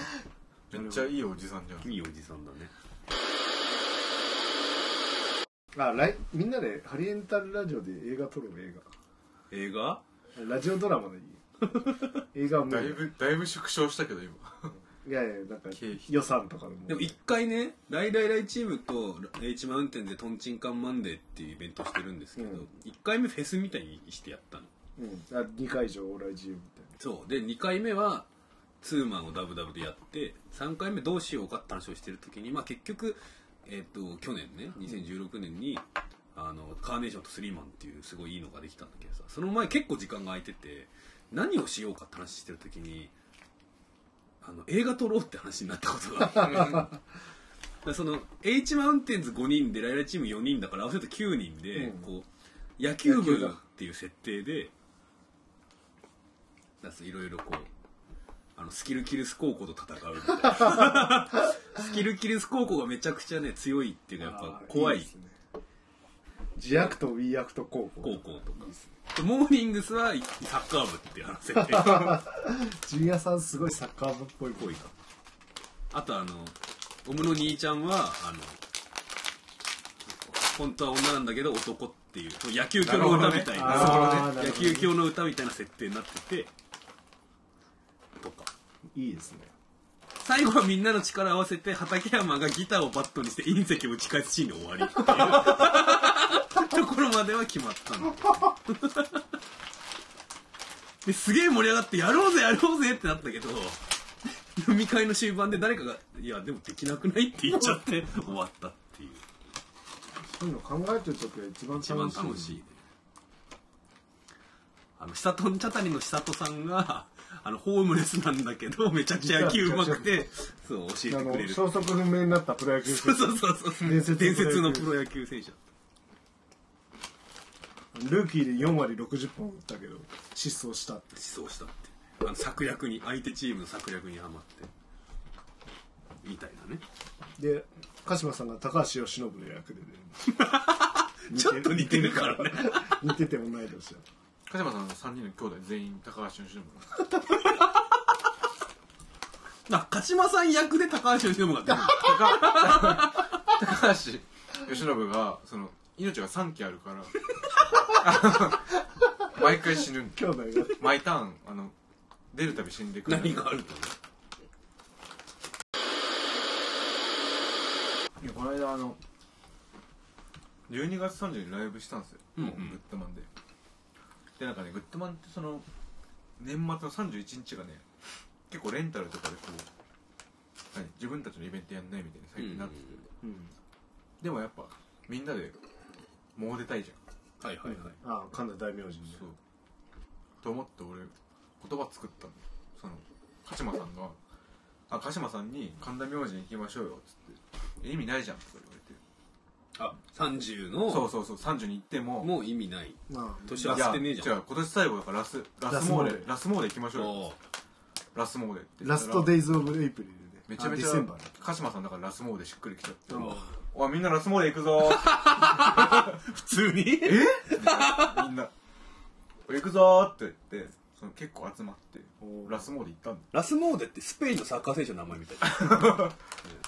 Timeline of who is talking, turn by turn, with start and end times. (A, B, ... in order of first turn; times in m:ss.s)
0:00.7-0:02.0 A
0:00.7-0:01.1 B
0:01.8-0:02.7 C
0:05.7-0:08.8 B
0:09.5-0:10.0 C
0:10.3-0:13.0 B
0:12.6-0:14.7 A
0:14.9-0:17.2 B
0:15.7-0:16.1 A
0:16.9-0:24.7 C
0:22.4-0:22.7 B
0:25.0-0:26.9 B
0:27.0-0:28.3 C
0:28.8-0:43.1 C
0:44.4-0:46.9 C
0:46.5-0:46.8 A
0:47.8-0:52.3 C
0:51.7-0:52.1 B
0:52.8-0:54.7 C
0:53.0-0:53.6 B
0:56.8-0:57.7 C
0:58.6-1:05.1 C
1:00.8-1:01.1 B
1:04.2-1:05.4 B
1:06.6-1:08.9 B
1:08.0-1:12.2 C
1:11.5-1:14.8 B
1:14.6-1:14.9 C
1:15.9-1:18.6 C
1:20.1-1:26.5 C
1:22.8-1:24.4 A
1:23.1-1:25.0 B
1:28.2-1:28.5 C
1:28.9-1:29.5 B
1:30.2-1:39.2 C
1:41.0-1:43.8 C
1:44.4-1:49.2 C
1:50.2-1:52.6 B
1:51.8-1:52.8 C
1:55.0-2:01.9 C
1:59.2-2:00.3 B
2:01.1-2:04.9 B
2:02.8-2:05.6 C
2:07.9-2:11.2 B
2:11.1-2:14.7 C
2:16.2-2:16.8 C
2:17.4-2:20.3 B
2:20.2-2:23.0 C
2:21.3-2:24.0 B
2:24.5-2:27.0 A
2:29.7-2:33.3 C
2:31.9-2:37.2 A
2:37.8-2:41.7 A
2:40.1-2:41.0 B
2:42.3-2:43.6 A
2:43.0-2:43.9 C
2:48.2-2:49.0 A
2:50.7-2:53.3 A
2:52.4-2:52.8 C
2:54.4-2:55.6 A
2:56.4-2:57.8 A
2:58.5-2:59.7 A
3:00.7-3:03.0 A
3:02.4-3:03.0 C
3:03.2-3:03.5 B
3:04.2-3:05.6 A
3:06.4-3:07.0 A
3:07.4-3:08.0 C
3:07.6-3:09.2 B
3:10.4-3:14.2 A
3:14.9-3:19.0 A
3:19.8-3:21.1 C
3:20.9-3:22.3 A
3:22.2-3:24.4 C
3:23.1-3:24.0 B
3:23.6-3:27.2 A
3:25.7-3:26.3 B
3:26.9-3:27.4 C
3:28.1-3:29.4 A
3:28.8-3:31.3 B
3:30.5-3:36.2 A
3:33.1-3:33.4 B
3:33.1-3:33.5 C
3:34.8-3:38.3 C
3:37.0-3:38.5 A
3:39.4-3:43.3 A
3:42.2-3:42.6 B
3:43.3-3:46.1 C
3:45.5-3:46.1 A